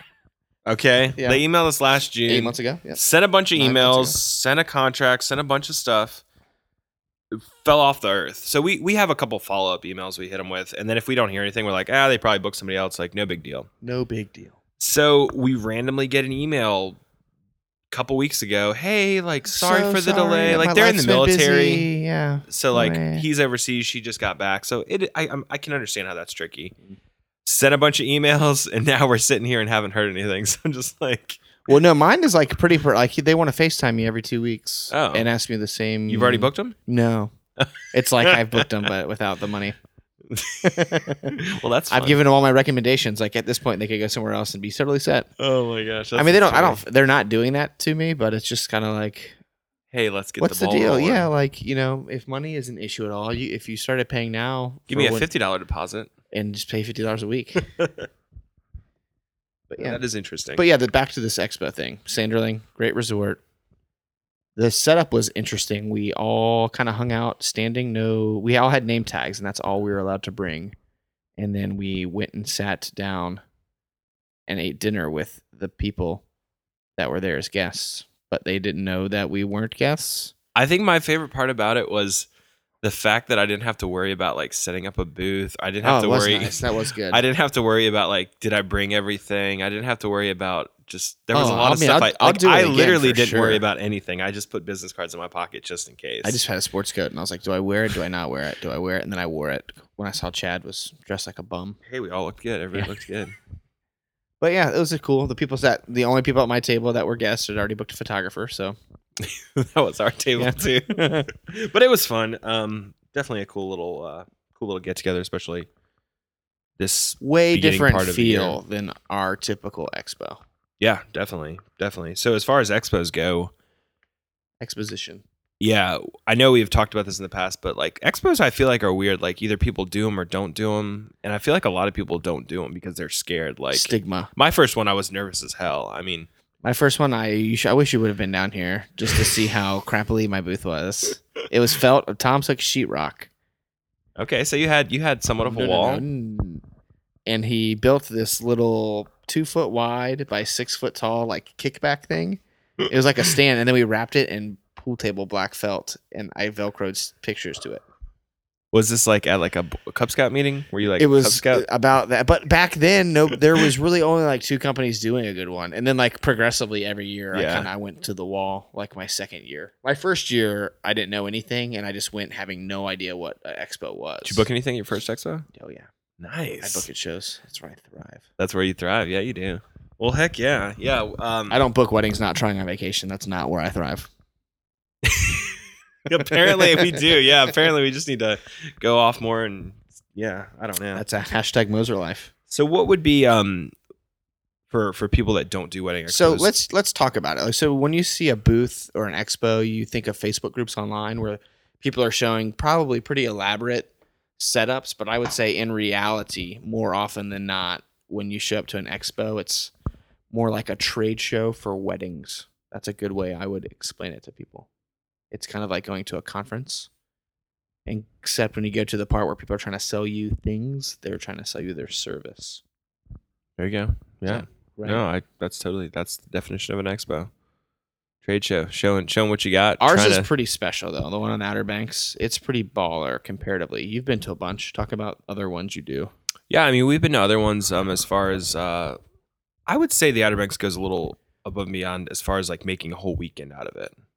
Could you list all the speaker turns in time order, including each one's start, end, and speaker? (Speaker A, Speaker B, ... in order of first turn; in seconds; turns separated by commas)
Speaker A: 0.7-6.2, Speaker B: 1.2-1.4, Speaker B: 2.2-3.0, Speaker B: 3.6-4.2, Speaker A: 7.3-13.7, Speaker B: 13.8-14.6, Speaker A: 14.8-17.0, Speaker A: 17.9-21.9, Speaker B: 19.5-23.3, Speaker A: 22.5-26.7, Speaker A: 27.4-31.5, Speaker B: 31.7-37.3, Speaker A: 34.9-35.3, Speaker A: 36.1-36.8, Speaker B: 37.9-39.8, Speaker A: 38.2-38.9, Speaker A: 40.3-42.2, Speaker B: 40.6-41.4, Speaker B: 41.9-45.3, Speaker A: 45.4-46.8, Speaker B: 46.2-49.4, Speaker A: 49.9-51.3, Speaker B: 50.4-55.3, Speaker A: 54.9-56.1, Speaker B: 56.3-57.6, Speaker A: 57.8-58.1, Speaker B: 59.7-60.0, Speaker A: 59.8-60.6, Speaker B: 60.6-63.4, Speaker B: 64.6-70.8, Speaker B: 71.4-73.4, Speaker B: 74.5-76.2, Speaker B: 77.0-80.3, Speaker A: 80.5-82.3, Speaker A: 82.8-96.4, Speaker B: 85.8-87.2, Speaker B: 91.3-93.6, Speaker B: 96.2-101.8, Speaker A: 101.9-103.4, Speaker B: 104.4-108.8, Speaker A: 109.2-115.7, Speaker B: 110.4-111.3, Speaker A: 116.8-118.6, Speaker B: 117.2-120.4, Speaker A: 120.8-123.5, Speaker B: 124.6-125.2, Speaker A: 125.6-136.3, Speaker B: 133.7-134.3, Speaker B: 136.6-143.3, Speaker A: 144.2-146.1, Speaker B: 145.4-146.6, Speaker B: 147.3-157.8, Speaker A: 158.7-161.7, Speaker B: 161.0-174.5, Speaker A: 167.3-167.7, Speaker A: 174.2-175.5, Speaker B: 175.5-175.9, Speaker A: 176.2-176.9, Speaker B: 176.6-178.2, Speaker A: 178.4-181.6, Speaker B: 181.5-184.1, Speaker A: 185.0-191.0, Speaker B: 186.3-187.1, Speaker B: 190.9-192.3, Speaker A: 192.5-193.7, Speaker A: 194.7-196.5, Speaker B: 196.1-209.7, Speaker B: 210.3-214.7, Speaker B: 215.3-216.9, Speaker B: 217.9-222.6, Speaker A: 223.6-227.3, Speaker B: 224.3-225.0, Speaker A: 228.2-230.3, Speaker B: 229.8-236.1, Speaker A: 236.5-239.0, Speaker A: 239.7-244.0